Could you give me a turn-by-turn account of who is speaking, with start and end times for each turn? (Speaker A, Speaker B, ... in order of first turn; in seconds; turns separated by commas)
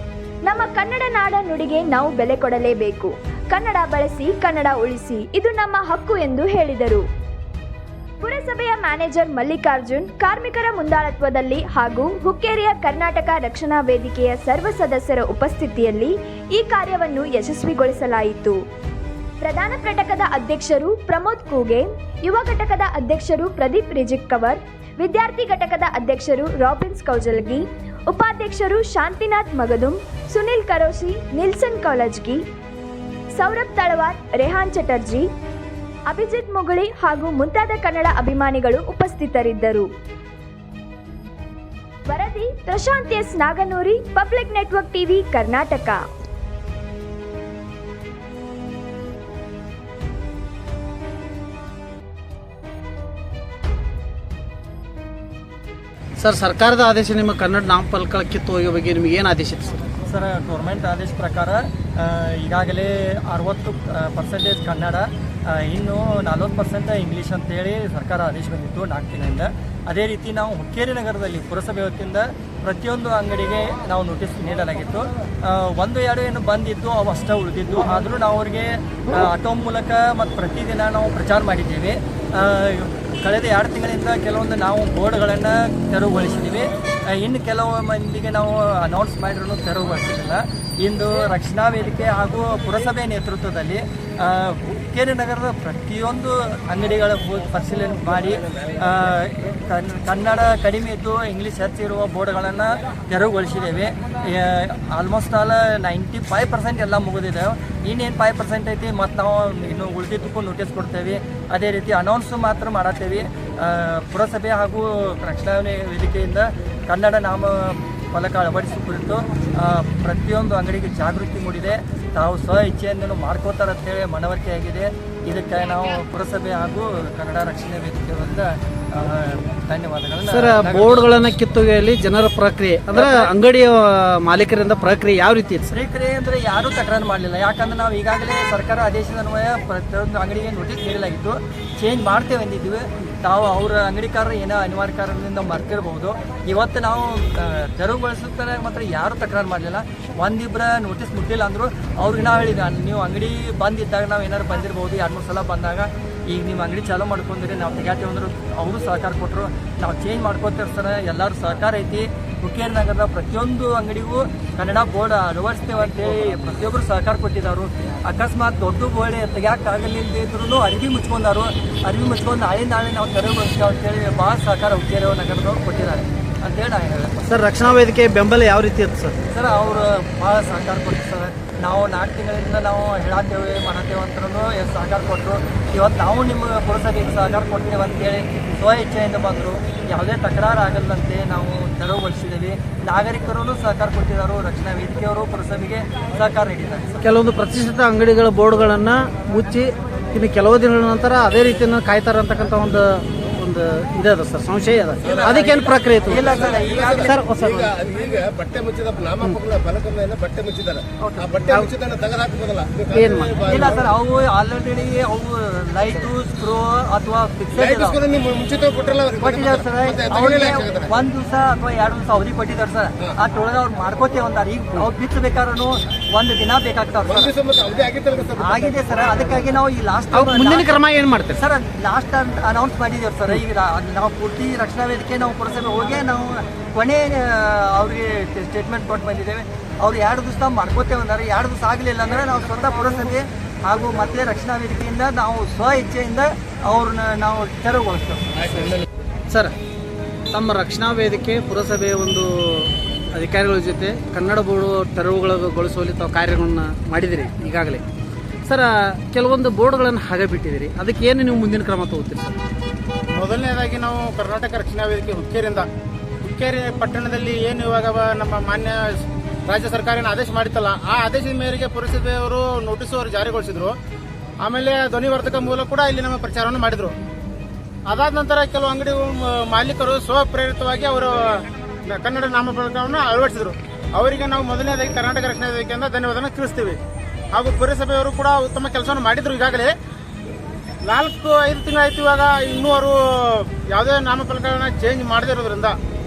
Speaker A: 0.5-7.0, Speaker A: 8.2-18.6, Speaker A: 19.4-32.4, Speaker A: 33.4-35.2, Speaker A: 36.1-39.9, Speaker A: 42.1-46.0, Speaker B: 56.2-59.8, Speaker C: 60.1-131.1, Speaker B: 130.2-135.7, Speaker C: 132.9-133.3, Speaker C: 135.7-177.8, Speaker B: 177.3-179.2, Speaker C: 179.3-197.0, Speaker B: 197.0-206.5, Speaker C: 205.0-207.2, Speaker D: 206.6-213.8, Speaker B: 207.1-207.8, Speaker C: 211.0-211.7, Speaker B: 212.9-213.4, Speaker C: 213.4-218.0, Speaker D: 217.8-220.9, Speaker C: 219.2-227.3, Speaker D: 227.2-228.6, Speaker C: 228.4-230.8, Speaker B: 230.1-231.4, Speaker C: 231.3-248.8, Speaker B: 249.3-249.5, Speaker B: 250.3-257.8, Speaker B: 258.5-262.4, Speaker E: 263.2-265.7, Speaker E: 266.2-273.7, Speaker E: 274.4-276.9, Speaker E: 277.9-286.8, Speaker E: 287.3-289.7, Speaker E: 290.9-295.8